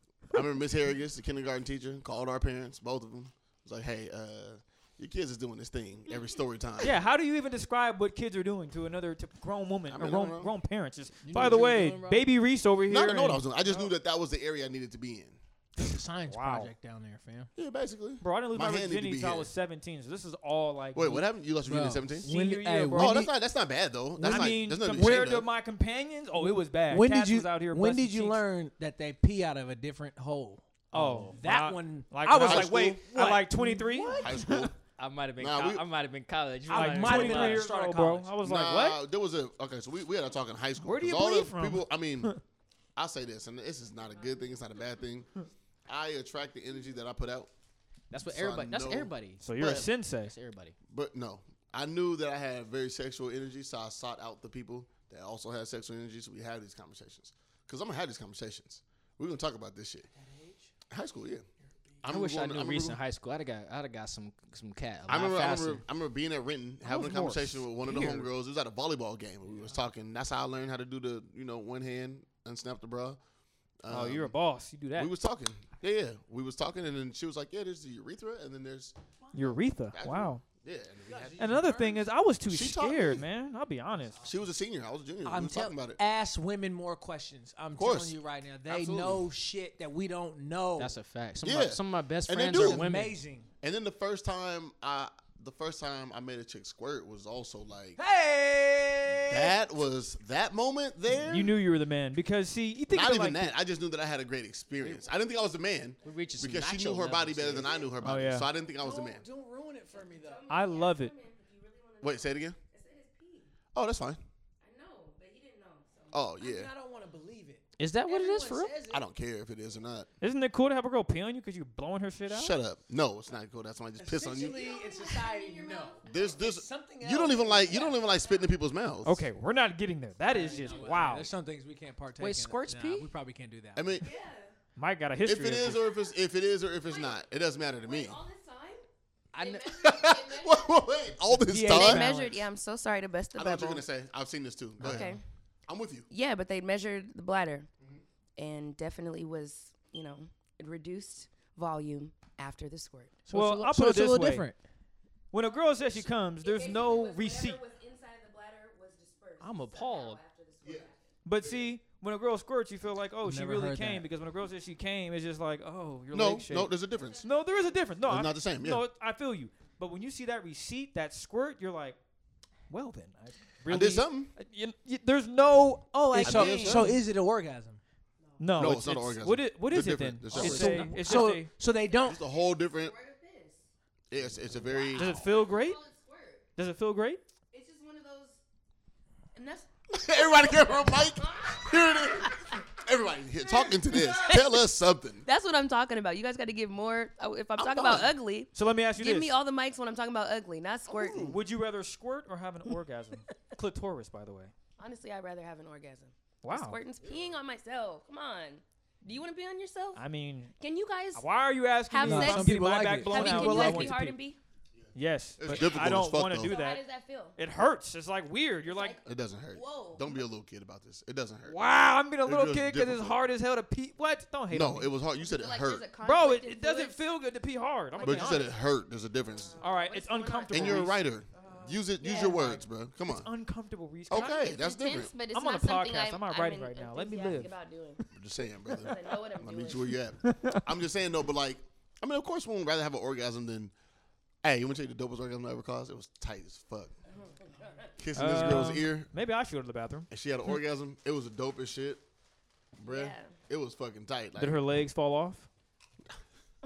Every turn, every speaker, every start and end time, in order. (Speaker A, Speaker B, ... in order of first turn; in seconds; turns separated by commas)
Speaker A: 0.3-7.0, Speaker B: 6.8-13.9, Speaker A: 9.9-10.5, Speaker C: 11.2-12.3, Speaker D: 11.4-11.7, Speaker A: 12.9-15.4, Speaker C: 15.8-17.5, Speaker B: 16.3-16.7, Speaker A: 17.6-19.5, Speaker B: 18.2-21.3, Speaker A: 20.9-22.3, Speaker C: 21.7-23.3, Speaker B: 22.2-23.3, Speaker A: 22.9-25.5, Speaker B: 24.2-28.4, Speaker C: 26.4-34.7, Speaker B: 30.9-34.7, Speaker A: 32.4-33.0, Speaker A: 34.2-34.7, Speaker D: 35.0-37.7, Speaker A: 35.4-35.9, Speaker C: 36.7-38.3, Speaker B: 36.7-39.0, Speaker A: 38.4-42.3, Speaker B: 40.8-42.4, Speaker A: 43.0-45.3, Speaker A: 45.9-47.5, Speaker D: 48.1-49.4, Speaker A: 48.3-49.9, Speaker B: 49.4-50.3, Speaker D: 50.2-50.8, Speaker A: 50.9-60.1, Speaker C: 60.1-60.7, Speaker A: 60.9-61.5, Speaker A: 62.0-63.0, Speaker D: 62.1-65.8, Speaker A: 65.1-73.2, Speaker B: 66.8-68.2, Speaker A: 73.8-74.3, Speaker B: 73.9-75.1, Speaker A: 75.0-79.0, Speaker C: 79.3-79.6, Speaker B: 79.3-80.4, Speaker A: 79.9-81.7, Speaker C: 81.0-82.1, Speaker B: 81.4-84.3, Speaker A: 82.5-83.3, Speaker C: 84.0-84.5, Speaker A: 84.2-86.0, Speaker C: 85.2-90.9, Speaker A: 87.8-89.3, Speaker D: 90.8-93.2, Speaker A: 91.4-92.9, Speaker C: 92.5-93.5, Speaker A: 93.6-98.0, Speaker C: 98.0-99.6, Speaker A: 99.3-101.6, Speaker B: 101.3-103.5, Speaker A: 102.9-109.2, Speaker E: 106.0-106.5, Speaker D: 106.0-107.8, Speaker B: 108.0-108.5, Speaker C: 108.8-110.5, Speaker E: 109.9-113.5, Speaker B: 110.5-111.1, Speaker A: 112.0-112.6, Speaker A: 113.8-114.2, Speaker E: 114.6-116.2, Speaker A: 116.1-116.7, Speaker C: 116.4-119.0, Speaker D: 117.8-118.8, Speaker A: 118.9-120.1, Speaker B: 120.2-122.6, Speaker A: 122.3-124.8, Speaker C: 124.0-128.0, Speaker E: 124.4-126.3, Speaker A: 126.0-129.3, Speaker E: 127.5-128.5, Speaker B: 129.0-131.3, Speaker C: 130.2-134.0, Speaker E: 130.6-131.0, Speaker D: 132.2-133.1, Speaker A: 133.8-134.1, Speaker E: 134.0-134.5, Speaker B: 134.8-135.8, Speaker A: 135.2-138.2, Speaker E: 136.8-137.2, Speaker E: 137.8-138.8, Speaker D: 139.3-139.9, Speaker E: 139.4-141.0, Speaker A: 139.8-142.1, Speaker C: 141.3-142.1, Speaker B: 141.5-142.3, Speaker E: 141.7-143.8, Speaker A: 143.4-145.2, Speaker E: 144.8-145.2, Speaker A: 145.7-146.1, Speaker E: 146.1-147.7, Speaker E: 148.4-153.2, Speaker D: 153.3-154.5, Speaker B: 153.3-154.5, Speaker C: 153.3-154.5, Speaker B: 155.3-157.6, Speaker E: 155.9-161.1, Speaker D: 159.4-160.2, Speaker B: 161.2-166.7, Speaker A: 161.4-161.7, Speaker C: 163.2-164.1, Speaker A: 166.1-167.2, Speaker E: 166.9-167.9, Speaker B: 167.2-172.0, Speaker A: 168.0-168.8, Speaker B: 172.7-177.0, Speaker A: 173.7-174.3, Speaker C: 176.0-177.8, Speaker A: 176.2-176.9, Speaker E: 178.2-178.5, Speaker B: 178.4-181.5, Speaker A: 178.6-181.0, Speaker C: 180.3-182.2, Speaker A: 182.0-182.9, Speaker E: 182.1-183.7, Speaker A: 184.1-185.1, Speaker E: 184.7-186.5, Speaker B: 184.9-185.8, Speaker B: 186.6-187.2, Speaker E: 187.5-188.4, Speaker E: 189.3-192.6, Speaker A: 189.9-195.3, Speaker E: 193.4-194.7, Speaker E: 195.2-201.4, Speaker A: 197.6-198.1, Speaker B: 198.5-199.3, Speaker B: 200.9-204.5, Speaker E: 204.8-210.0, Speaker B: 206.4-206.8, Speaker B: 209.9-210.6, Speaker E: 210.6-211.3, Speaker B: 211.2-214.2, Speaker E: 211.9-214.4, Speaker C: 212.0-214.0, Speaker A: 214.8-216.6, Speaker B: 214.9-216.8, Speaker E: 216.4-217.4, Speaker B: 217.4-219.0, Speaker E: 218.6-220.2, Speaker A: 219.0-221.6, Speaker B: 221.5-224.9, Speaker A: 222.2-223.2, Speaker A: 224.5-225.9, Speaker E: 225.2-227.0, Speaker B: 226.0-228.5, Speaker E: 227.9-228.6, Speaker A: 228.0-229.6, Speaker E: 229.3-230.9, Speaker B: 229.6-231.0, Speaker A: 230.5-233.3, Speaker C: 231.4-232.4, Speaker E: 232.0-232.6, Speaker B: 232.2-232.4, Speaker B: 233.1-234.6, Speaker A: 234.1-235.1, Speaker E: 234.1-238.0, Speaker B: 235.2-237.5, Speaker A: 238.1-243.7, Speaker E: 238.7-239.9, Speaker B: 240.2-240.6, Speaker A: 244.4-246.9, Speaker E: 247.1-247.9, Speaker A: 248.0-249.1, Speaker B: 248.2-250.1, Speaker A: 250.1-252.0, Speaker A: 252.8-254.6, Speaker E: 252.8-253.4, Speaker B: 254.4-255.5